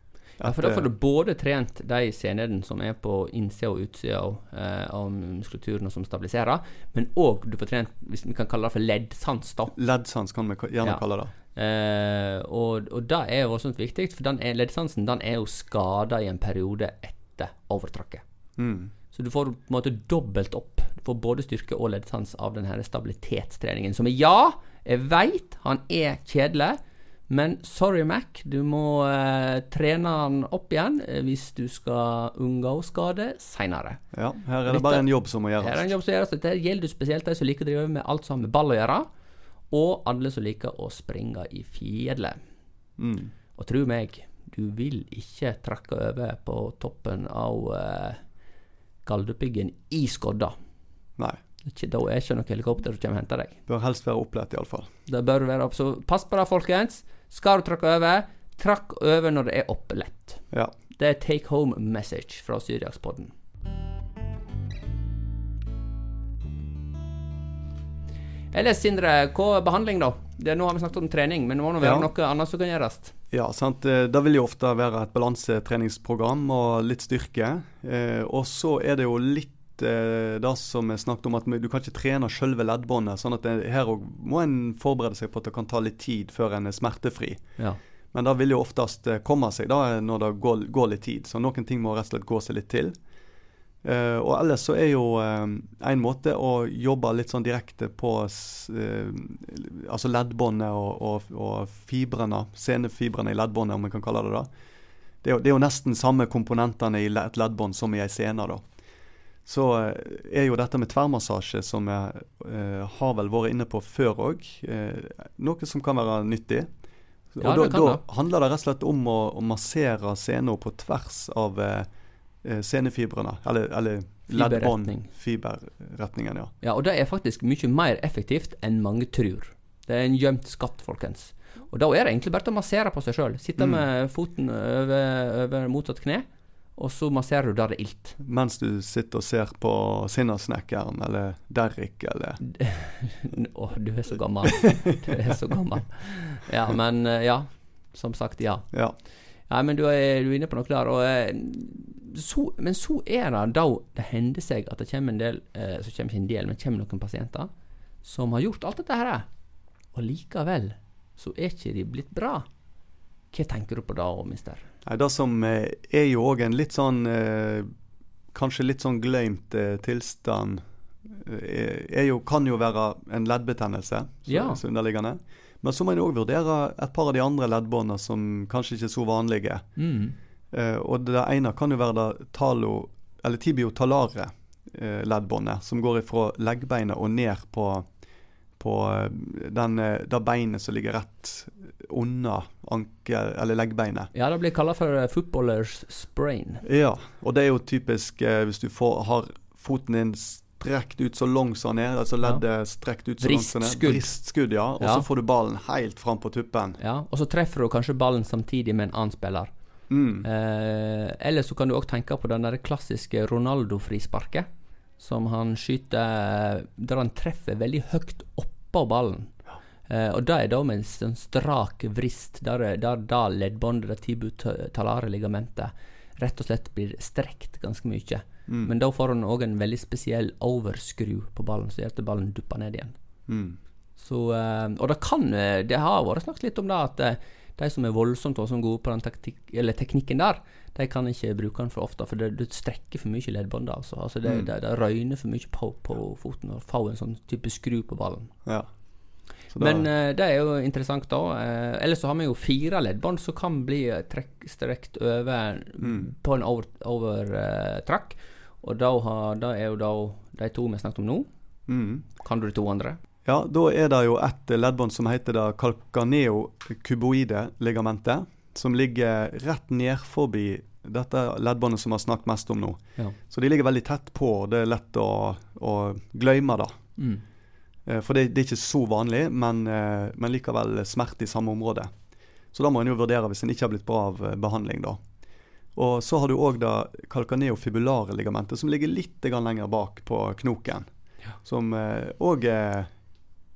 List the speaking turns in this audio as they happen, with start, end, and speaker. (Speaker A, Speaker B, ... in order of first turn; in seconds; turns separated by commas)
Speaker A: 0.4-0.9, Speaker B: 0.4-9.7, Speaker A: 9.8-11.3, Speaker B: 10.8-18.2, Speaker A: 18.6-18.9, Speaker B: 19.1-26.8, Speaker B: 27.3-34.0, Speaker A: 34.1-35.9, Speaker B: 34.7-39.1, Speaker B: 39.7-42.4, Speaker A: 43.0-43.3, Speaker B: 43.6-48.2, Speaker B: 49.0-50.5, Speaker B: 51.6-53.6, Speaker A: 53.7-54.9, Speaker B: 55.1-60.4, Speaker B: 61.0-63.3, Speaker B: 68.5-73.1, Speaker A: 71.8-72.1, Speaker A: 73.3-87.4, Speaker A: 88.1-93.0, Speaker A: 93.8-104.5, Speaker A: 105.2-108.6, Speaker A: 109.5-116.7, Speaker A: 117.3-121.9, Speaker B: 117.4-118.0, Speaker A: 122.4-126.5, Speaker B: 124.3-125.1, Speaker B: 126.6-136.2, Speaker A: 133.6-133.9, Speaker B: 136.8-138.2, Speaker A: 138.2-142.4, Speaker B: 142.6-148.7, Speaker B: 149.5-157.5, Speaker B: 158.0-159.3, Speaker B: 159.9-162.5, Speaker B: 163.3-164.7, Speaker A: 164.8-167.7, Speaker A: 168.3-179.7, Speaker B: 174.3-174.6, Speaker B: 179.8-180.2, Speaker A: 180.5-187.9, Speaker A: 188.6-194.1, Speaker B: 194.1-196.6, Speaker A: 196.7-206.8, Speaker B: 203.2-204.1, Speaker B: 204.8-205.1, Speaker B: 206.8-209.5, Speaker A: 209.9-210.3, Speaker B: 210.2-214.5, Speaker B: 215.0-219.3, Speaker B: 219.9-232.9, Speaker A: 228.5-228.7, Speaker A: 233.3-233.6, Speaker B: 234.0-248.3, Speaker A: 249.5-249.9, Speaker B: 249.6-261.3, Speaker A: 255.8-256.1, Speaker A: 261.7-262.1, Speaker B: 262.2-263.0, Speaker A: 263.2-276.7, Speaker B: 277.0-277.2, Speaker A: 277.9-281.9, Speaker A: 282.5-285.0, Speaker A: 285.8-290.9, Speaker A: 291.4-292.9